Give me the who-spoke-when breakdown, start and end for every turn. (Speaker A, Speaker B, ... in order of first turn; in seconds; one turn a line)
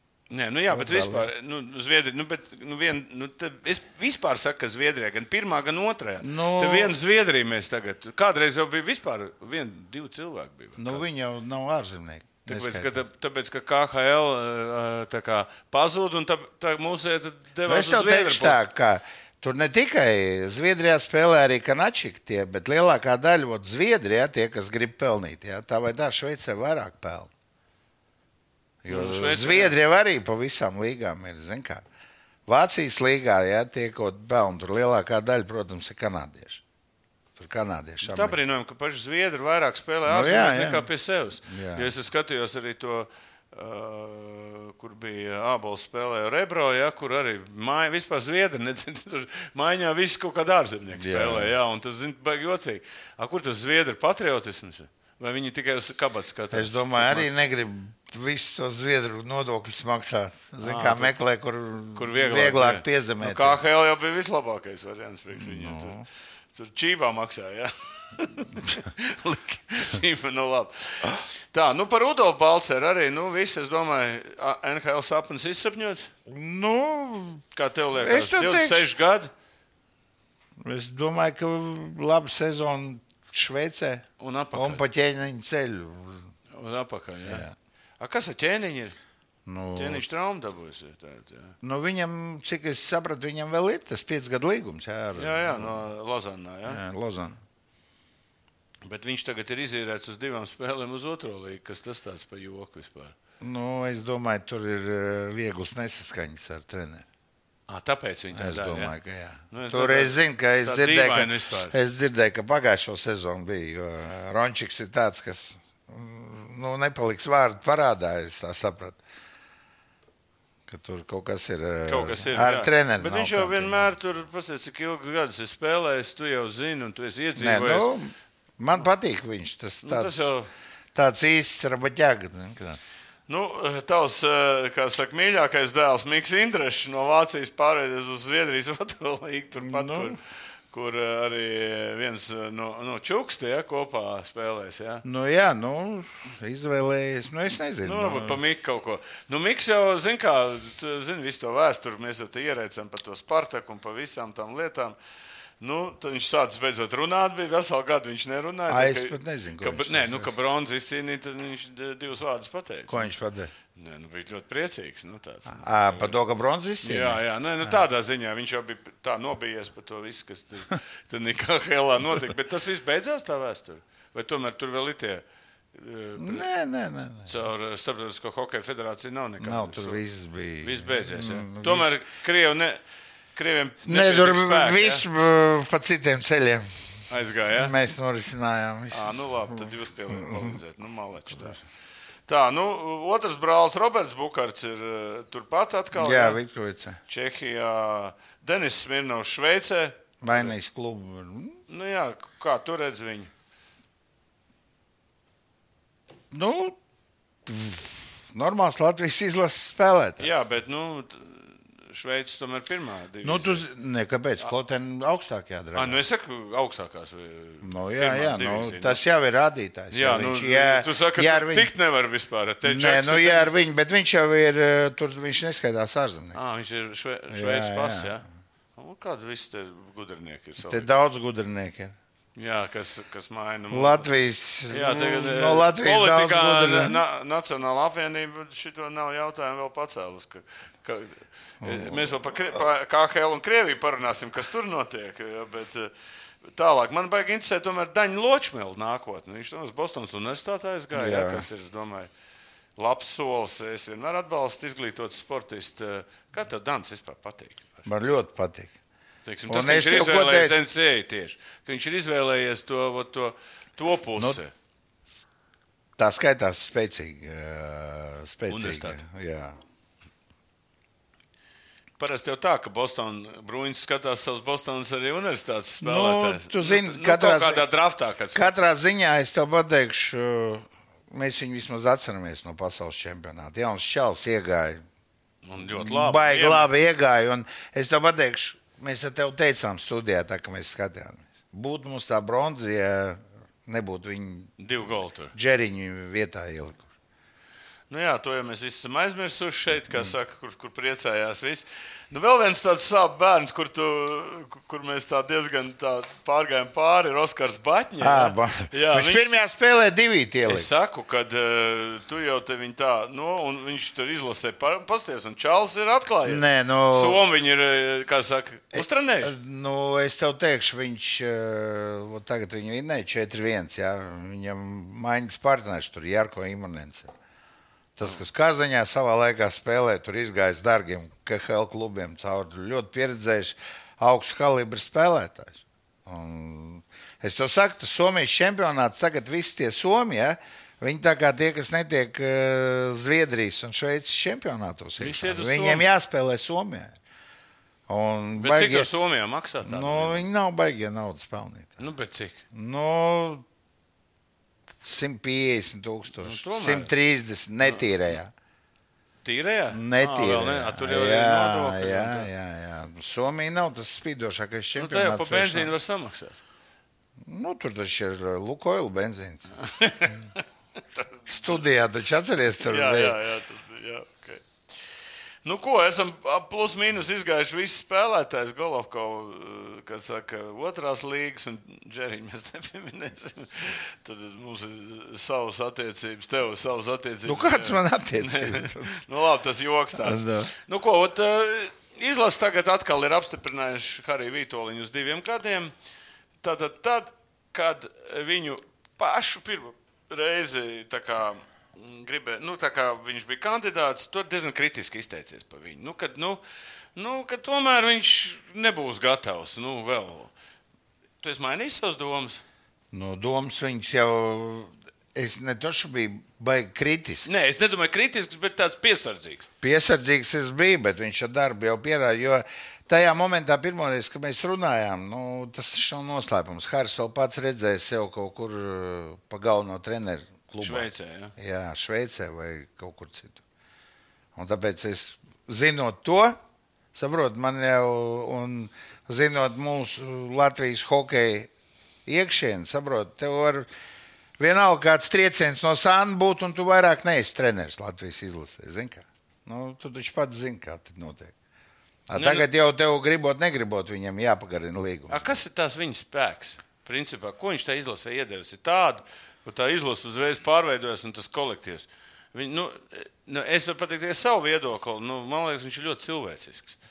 Speaker A: 0.3-11.0
Speaker B: 0.7-1.3
Speaker B: 6.2-7.0
Speaker B: 10.8-13.0
Speaker A: 12.4-18.6
Speaker B: 17.6-27.3
Speaker B: 28.8-31.8
Speaker A: 28.9-29.8
Speaker B: 32.5-36.6
Speaker B: 37.4-38.4
Speaker A: 38.0-57.3
Speaker B: 40.0-40.9
Speaker B: 41.5-41.9
Speaker B: 51.0-51.5
Speaker B: 56.5-63.6
Speaker A: 60.6-61.1
Speaker A: 61.9-66.0
Speaker B: 65.4-66.0
Speaker A: 66.5-76.1
Speaker B: 76.3-77.4
Speaker A: 77.5-79.3
Speaker B: 77.9-78.9
Speaker B: 80.6-86.3
Speaker A: 84.2-84.8
Speaker A: 86.5-87.5
Speaker B: 87.2-87.5
Speaker A: 88.0-89.0
Speaker B: 89.5-90.0
Speaker A: 89.7-91.5
Speaker B: 91.6-95.8
Speaker A: 95.1-96.8
Speaker B: 96.7-97.4
Speaker A: 98.8-103.1
Speaker B: 103.4-107.0
Speaker A: 107.7-108.9
Speaker B: 108.3-119.0
Speaker A: 109.5-111.7
Speaker B: 120.7-123.9
Speaker A: 121.8-127.9
Speaker B: 127.4-130.3
Speaker A: 129.8-130.5
Speaker B: 130.9-132.8
Speaker A: 133.3-140.2
Speaker B: 139.6-140.2
Speaker A: 140.7-145.0
Speaker B: 145.0-148.4
Speaker A: 147.8-154.9
Speaker A: 155.6-163.1
Speaker B: 158.7-160.3
Speaker B: 162.9-163.5
Speaker A: 163.7-166.1
Speaker B: 165.5-167.8
Speaker A: 166.8-176.4
Speaker B: 176.2-177.3
Speaker A: 177.2-180.0
Speaker B: 179.4-181.9
Speaker A: 180.6-182.8
Speaker A: 183.3-185.0
Speaker B: 183.8-186.7
Speaker A: 187.1-187.7
Speaker B: 187.5-190.6
Speaker A: 188.9-191.6
Speaker A: 192.3-196.4
Speaker B: 195.9-197.0
Speaker A: 197.1-200.5
Speaker B: 200.2-201.6
Speaker A: 201.7-203.3
Speaker B: 206.3-206.8
Speaker B: 207.4-210.3
Speaker A: 210.2-213.6
Speaker B: 213.2-216.0
Speaker A: 215.7-219.0
Speaker B: 217.6-221.7
Speaker A: 219.9-223.5
Speaker B: 222.6-226.4
Speaker A: 226.3-228.2
Speaker B: 227.3-228.2
Speaker A: 228.8-230.9
Speaker B: 230.6-231.9
Speaker A: 232.3-234.1
Speaker B: 233.7-237.0
Speaker A: 234.7-245.9
Speaker B: 241.6-242.6
Speaker A: 246.5-252.1
Speaker B: 250.9-251.5
Speaker A: 252.8-257.9
Speaker B: 257.9-258.7
Speaker A: 259.2-264.5
Speaker B: 259.5-260.6
Speaker B: 266.0-269.6
Speaker A: 268.5-269.0
Speaker A: 272.0-278.5
Speaker B: 275.8-277.6
Speaker B: 278.3-284.8
Speaker A: 285.4-286.7
Speaker B: 285.6-294.5
Speaker A: 294.6-295.3
Speaker B: 295.3-296.9
Speaker A: 297.9-309.4
Speaker B: 308.0-310.7
Speaker A: 310.5-319.4
Speaker B: 316.2-317.2
Speaker B: 318.7-327.1
Speaker B: 327.9-346.9
Speaker A: 345.0-345.9
Speaker B: 347.9-348.9
Speaker A: 348.4-350.3
Speaker B: 349.6-351.8
Speaker A: 351.8-352.4
Speaker B: 352.5-353.4
Speaker B: 354.8-358.3
Speaker A: 356.2-356.9
Speaker A: 359.2-362.3
Speaker B: 359.7-365.7
Speaker A: 364.8-366.4
Speaker B: 367.2-369.5
Speaker A: 369.6-370.4
Speaker A: 370.9-371.5
Speaker B: 371.3-373.2
Speaker A: 372.6-374.4
Speaker A: 375.4-395.7
Speaker B: 387.2-388.9
Speaker B: 390.0-390.5
Speaker A: 396.4-406.4
Speaker A: 406.9-410.3
Speaker A: 411.2-412.4
Speaker B: 412.9-417.3
Speaker A: 417.2-419.4
Speaker B: 419.6-433.4
Speaker A: 430.6-431.3
Speaker B: 434.4-436.4
Speaker B: 436.9-441.5
Speaker B: 442.1-443.7
Speaker B: 444.4-451.3
Speaker B: 452.1-455.3
Speaker A: 452.1-452.4
Speaker A: 455.1-466.8